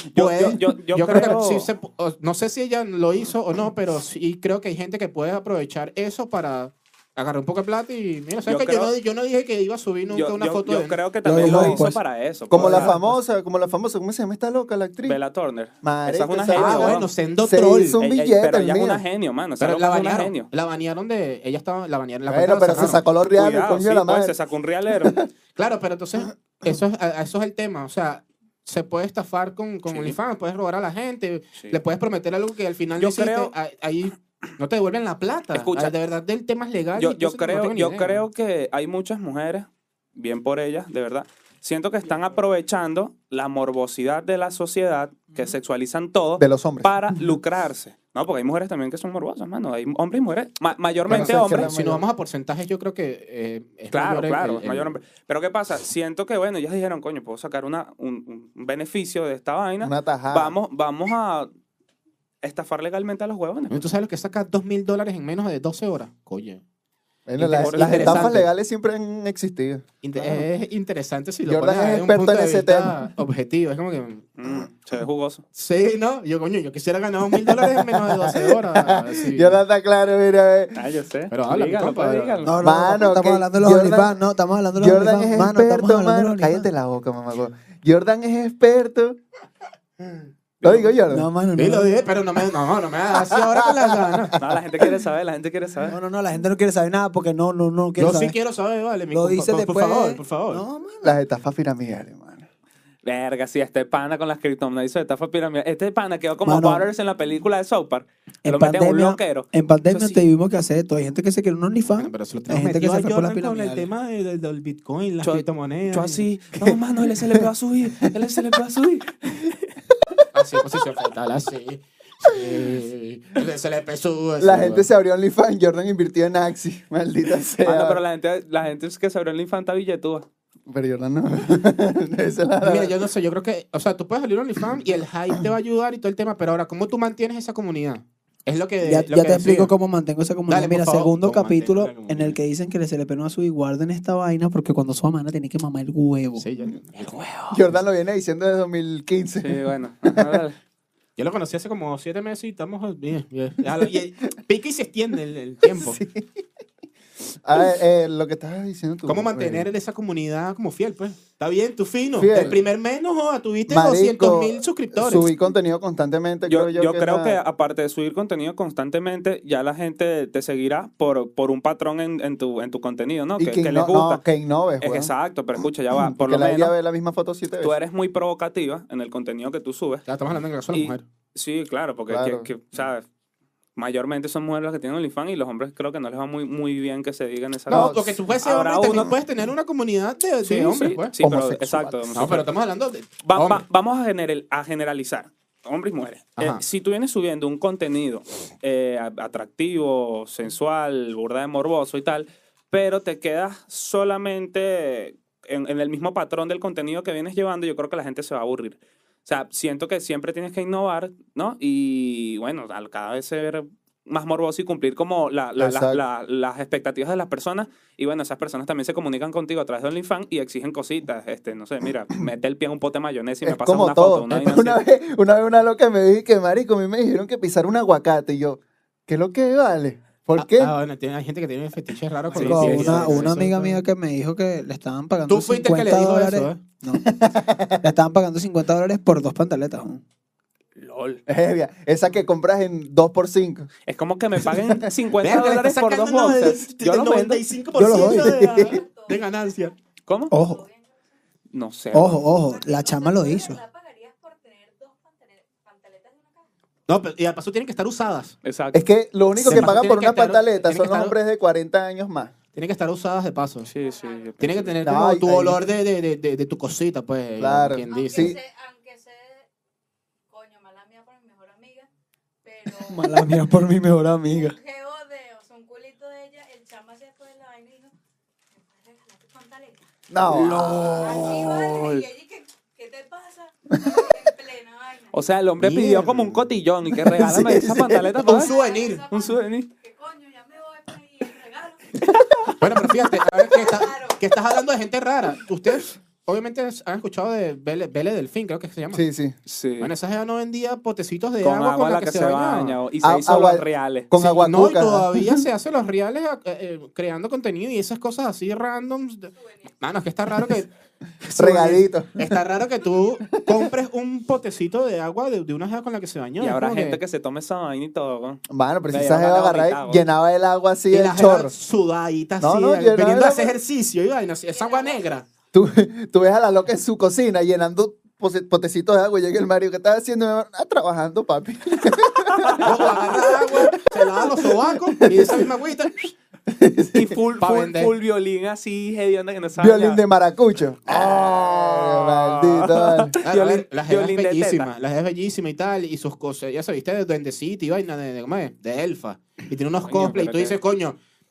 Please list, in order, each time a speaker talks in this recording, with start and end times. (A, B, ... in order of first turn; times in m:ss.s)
0:00.1-0:01.7 A
0:00.1-0:11.9 B
0:08.5-0:08.9 A
0:10.1-0:13.0 A
0:11.2-0:12.0 C
0:12.5-0:15.2 D
0:12.5-0:13.1 B
0:15.0-0:17.1 A
0:15.8-0:19.0 D
0:16.5-0:18.0 B
0:18.0-0:20.5 A
0:19.6-0:23.0 B
0:22.3-0:24.4 D
0:22.8-0:25.2 A
0:24.9-0:25.3 D
0:25.6-0:38.2 B
0:29.9-0:30.2 A
0:33.0-0:33.5 A
0:35.5-0:35.9 A
0:37.0-0:51.7 A
0:46.4-0:47.4 D
0:51.1-0:52.0 D
0:51.1-0:55.0 B
0:53.9-1:01.5 A
0:59.8-1:00.6 D
1:02.4-1:03.8 A
1:03.7-1:06.6 B
1:07.3-1:10.4 D
1:07.4-1:08.5 B
1:07.5-1:08.4 A
1:10.0-1:14.3 B
1:11.5-1:13.0 D
1:14.4-1:15.4 A
1:15.6-1:19.6 B
1:17.5-1:20.8 D
1:20.7-1:22.6 A
1:21.3-1:22.4 B
1:22.4-1:26.7 C
1:22.6-1:24.1 D
1:24.8-1:29.2 D
1:30.6-1:31.3 D
1:30.6-1:30.9 A
1:31.1-1:32.1 C
1:31.6-1:34.4 B
1:33.4-1:34.3 D
1:34.4-1:36.0 A
1:35.9-1:38.4 C
1:38.0-1:40.6 B
1:39.1-1:41.2 C
1:41.0-1:42.5 D
1:43.0-1:49.5 A
1:46.4-1:46.9 C
1:48.4-1:53.9 C
1:49.9-1:50.2 B
1:52.0-1:56.2 B
1:55.2-1:59.6 A
1:56.6-1:57.5 D
2:00.3-2:04.9 B
2:04.4-2:08.0 D
2:07.6-2:10.3 A
2:10.7-2:13.0 D
2:12.6-2:19.7 B
2:18.8-2:26.5 C
2:20.5-2:22.4 B
2:26.4-2:27.2 B
2:27.0-2:27.6 C
2:27.5-2:30.4 D
2:29.4-2:30.6 A
2:31.2-2:36.0 B
2:35.7-2:36.4 D
2:37.4-2:39.7 D
2:39.1-2:45.3 B
2:42.2-2:42.6 D
2:43.7-2:47.4 D
2:46.5-2:54.2 A
2:53.4-2:55.1 D
2:54.8-2:56.7 A
2:55.9-2:57.8 D
2:57.6-3:00.1 A
3:00.1-3:01.0 B
3:00.7-3:03.1 A
3:02.1-3:02.5 D
3:03.8-3:09.1 A
3:07.7-3:11.2 B
3:07.7-3:08.1 D
3:08.9-3:09.1 D
3:10.4-3:12.5 A
3:11.2-3:12.4 D
3:12.1-3:13.6 B
3:13.2-3:44.8 A
3:16.4-3:16.6 B
3:35.6-3:36.0 D
3:43.4-3:50.7 D
3:50.4-3:53.8 B
3:52.3-3:57.1 C
3:52.3-3:53.3 A
3:55.3-3:56.6 B
3:57.0-3:57.9 D
3:57.8-3:59.9 C
4:00.8-4:01.2 A
4:01.3-4:03.7 D
4:03.9-4:07.4 A
4:04.4-4:04.9 D
4:05.2-4:09.7 B
4:07.8-4:08.4 C
4:07.8-4:08.8 D
4:08.2-4:09.8 E
4:10.1-4:10.3 A
4:10.3-4:11.2 E
4:10.3-4:10.6 C
4:11.5-4:12.2 A
4:11.9-4:13.6 C
4:12.2-4:16.5 E
4:16.9-4:18.4 B
4:18.4-4:18.8 A
4:18.7-4:22.3 D
4:19.4-4:21.2 B
4:22.6-4:23.7 B
4:23.7-4:24.8 A
4:23.8-4:24.7 E
4:24.4-4:28.4 B
4:24.8-4:25.6 D
4:27.4-4:28.4 D
4:27.9-4:29.5 E
4:30.3-4:31.9 E
4:32.4-4:33.5 E
4:32.8-4:34.6 C
4:34.3-4:37.9 E
4:38.5-4:39.8 E
4:40.1-4:41.2 D
4:40.3-4:42.0 C
4:40.9-4:45.3 E
4:45.1-4:48.5 A
4:45.6-4:46.5 B
4:46.9-4:48.2 D
4:48.2-4:49.0 B
4:48.3-4:52.2 E
4:49.1-4:49.7 A
4:52.0-4:52.9 D
4:52.6-4:59.0 B
4:53.5-4:54.2 E
4:58.9-4:59.4 D
4:59.5-4:59.9 A
4:59.8-5:02.8 B
5:01.4-5:04.1 A
5:03.0-5:05.4 D
5:04.2-5:10.7 B
5:09.4-5:09.7 E
5:11.2-5:17.0 B
5:11.4-5:12.4 D
5:16.4-5:20.0 A
5:18.5-5:21.5 D
5:20.9-5:25.2 B
5:22.4-5:23.6 D
5:24.5-5:25.2 E
5:25.5-5:35.5 D
5:32.3-5:32.9 A
5:32.6-5:36.1 B
5:36.5-5:37.2 D
5:37.0-5:40.0 A
5:37.4-5:37.9 B
5:39.6-5:43.2 D
5:40.9-5:44.7 A
5:43.2-5:51.0 B
5:49.8-5:50.6 A